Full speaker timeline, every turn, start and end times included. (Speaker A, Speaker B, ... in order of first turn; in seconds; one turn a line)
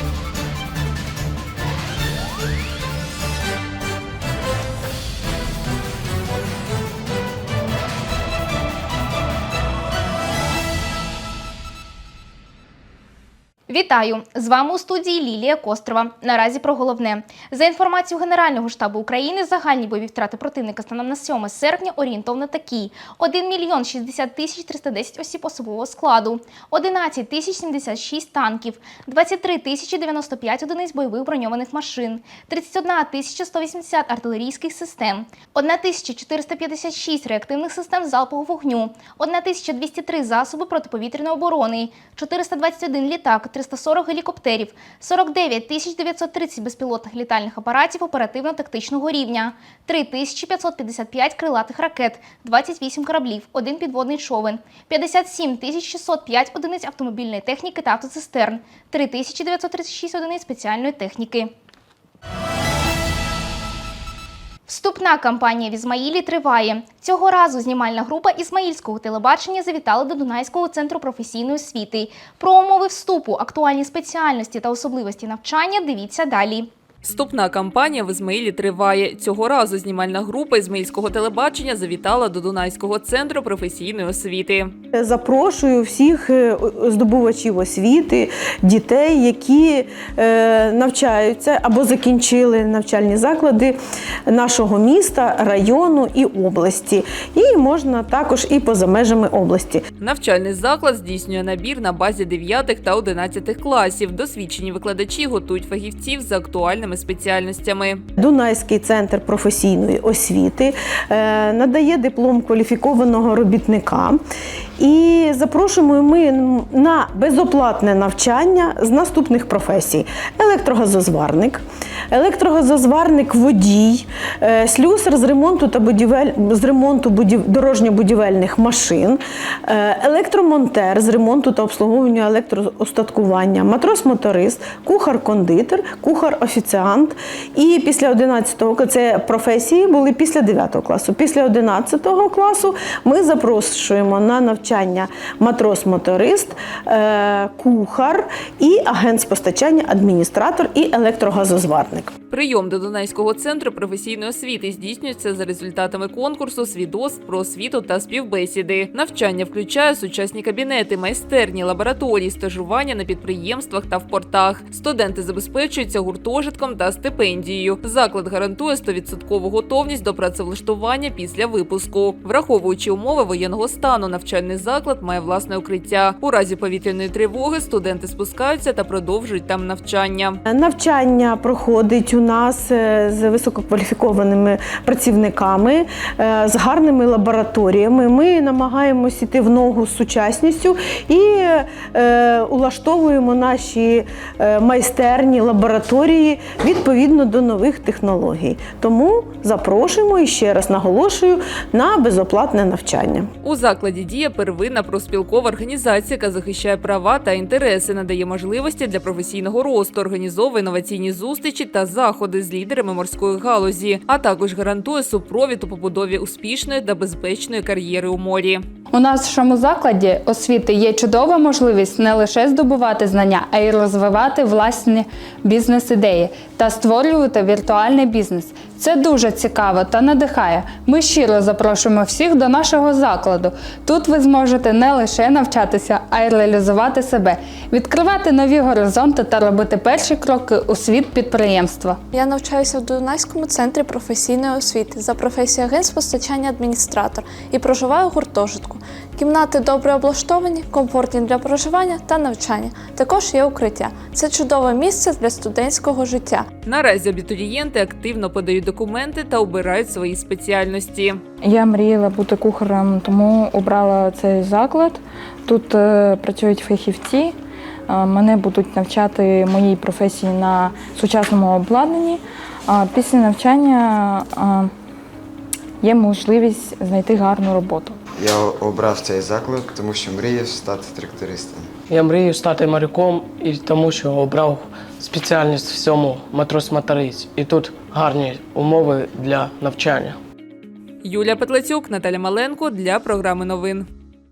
Speaker A: 13.7-61.5
Speaker A: 64.7-76.7
Speaker B: 77.0-84.7
Speaker C: 84.9-99.8
Speaker B: 100.0-108.0
Speaker C: 108.2-114.2
Speaker C: 114.8-152.1
Speaker B: 152.3-180.4
Speaker C: 180.5-203.3
Speaker B: 203.4-218.6
Speaker D: 218.9-242.0
Speaker E: 242.1-256.5
Speaker B: 256.6-261.2
Speaker F: 261.4-267.4
Speaker F: 267.9-274.7
Speaker F: 275.8-278.0
Speaker G: 278.2-281.6
Speaker H: 281.9-290.2
Speaker B: 291.0-293.9